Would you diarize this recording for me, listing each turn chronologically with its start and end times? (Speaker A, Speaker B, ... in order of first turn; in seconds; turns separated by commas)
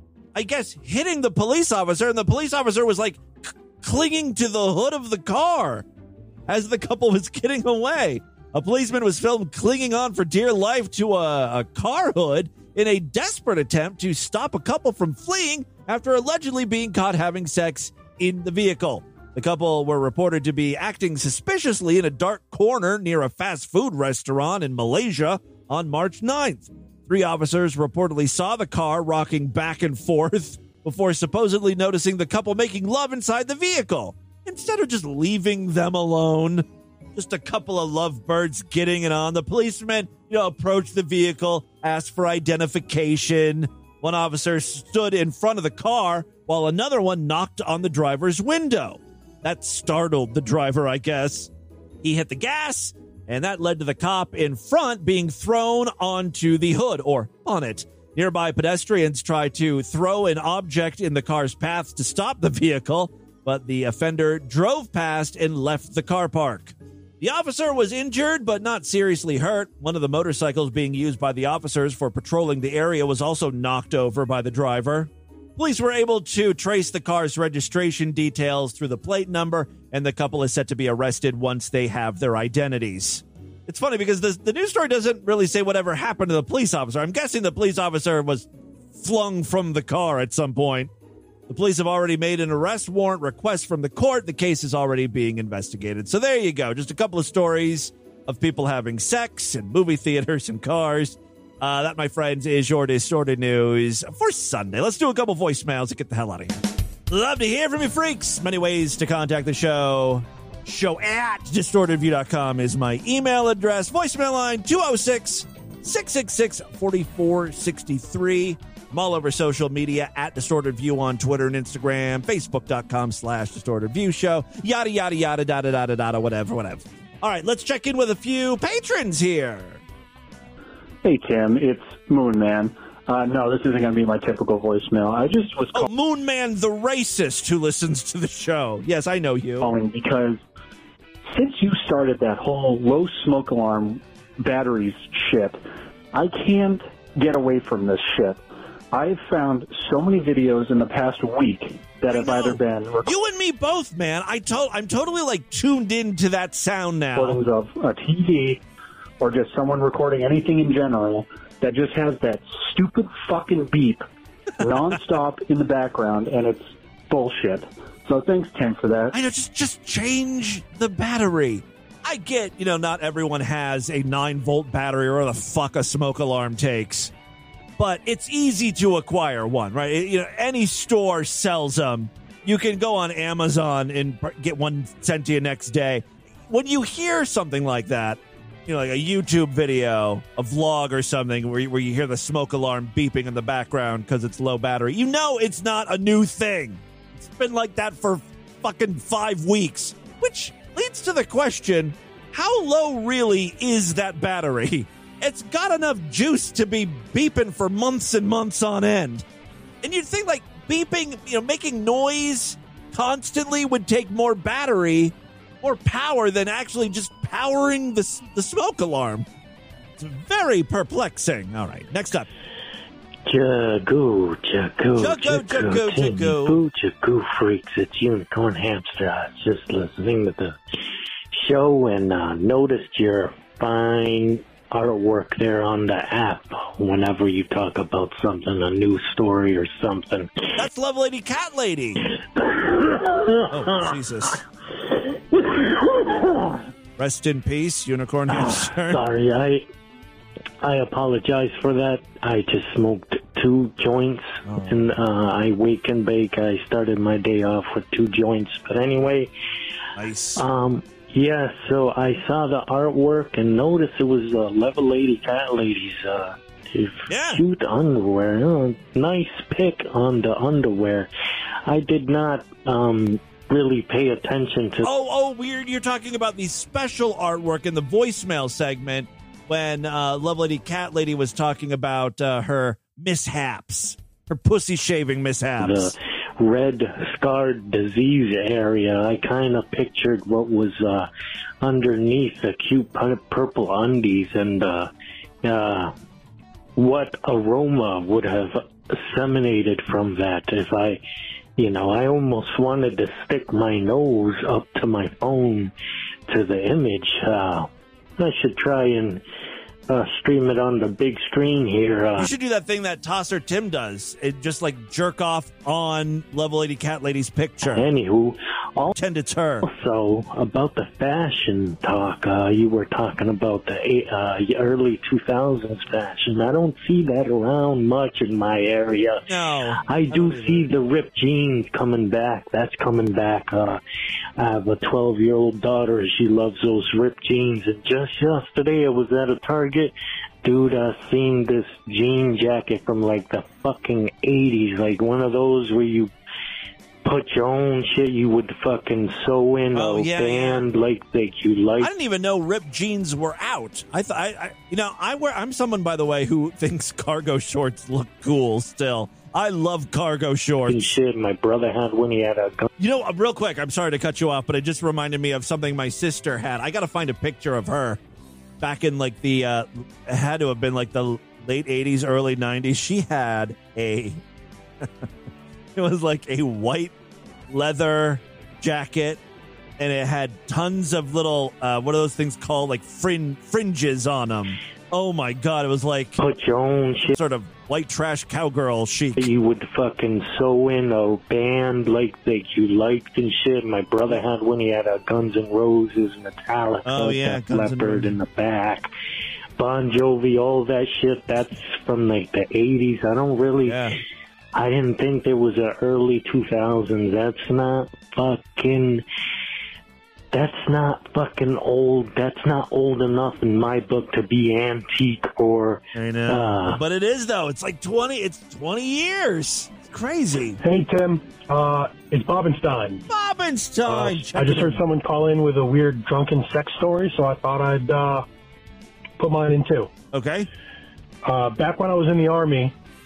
Speaker A: 0.3-5.8, Speaker A: 6.5-51.5, Speaker A: 52.0-90.9, Speaker A: 91.5-106.6, Speaker A: 107.1-129.8, Speaker B: 131.0-135.9, Speaker A: 135.7-139.7, Speaker B: 139.6-140.4, Speaker B: 141.3-145.6, Speaker B: 146.1-153.1, Speaker A: 152.1-157.4, Speaker B: 157.1-158.6, Speaker B: 159.2-164.0, Speaker B: 164.6-169.1, Speaker A: 169.1-177.1, Speaker A: 177.8-209.2, Speaker A: 209.8-219.3, Speaker A: 220.0-222.3, Speaker C: 223.3-230.6, Speaker A: 225.0-226.6, Speaker C: 231.3-240.3, Speaker A: 240.6-242.0, Speaker C: 243.1-243.8, Speaker A: 243.5-244.4, Speaker C: 245.5-246.3, Speaker A: 247.0-249.0, Speaker C: 248.3-249.6, Speaker C: 250.6-259.3, Speaker A: 254.4-254.9, Speaker A: 259.9-260.4, Speaker C: 260.4-271.1, Speaker A: 267.1-267.4, Speaker C: 271.6-274.9, Speaker A: 274.8-285.9, Speaker C: 285.6-291.1, Speaker C: 291.6-294.9, Speaker C: 295.4-295.9, Speaker C: 296.8-301.0, Speaker C: 301.6-305.7, Speaker C: 306.3-309.2, Speaker C: 309.9-312.3, Speaker A: 312.1-317.9, Speaker C: 317.6-318.9, Speaker A: 318.9-319.7, Speaker C: 319.6-329.2, Speaker A: 329.2-330.7, Speaker C: 329.8-333.8, Speaker C: 334.4-339.9, Speaker C: 340.4-346.1, Speaker C: 347.0-351.9, Speaker A: 349.7-350.6, Speaker A: 351.8-361.0, Speaker C: 360.7-362.7, Speaker A: 362.8-368.0, Speaker A: 368.6-374.2, Speaker A: 375.7-376.9, Speaker A: 377.5-379.2, Speaker A: 379.8-386.2, Speaker C: 386.2-387.1, Speaker A: 387.1-389.3, Speaker C: 389.2-398.9, Speaker A: 396.8-398.2, Speaker C: 399.6-403.8, Speaker A: 403.6-404.0, Speaker C: 404.5-409.0, Speaker C: 410.3-416.8, Speaker A: 415.9-420.6, Speaker D: 420.6-423.0, Speaker A: 423.1-424.8, Speaker D: 423.9-428.2, Speaker D: 429.2-429.9, Speaker A: 430.1-430.5, Speaker D: 431.2-432.7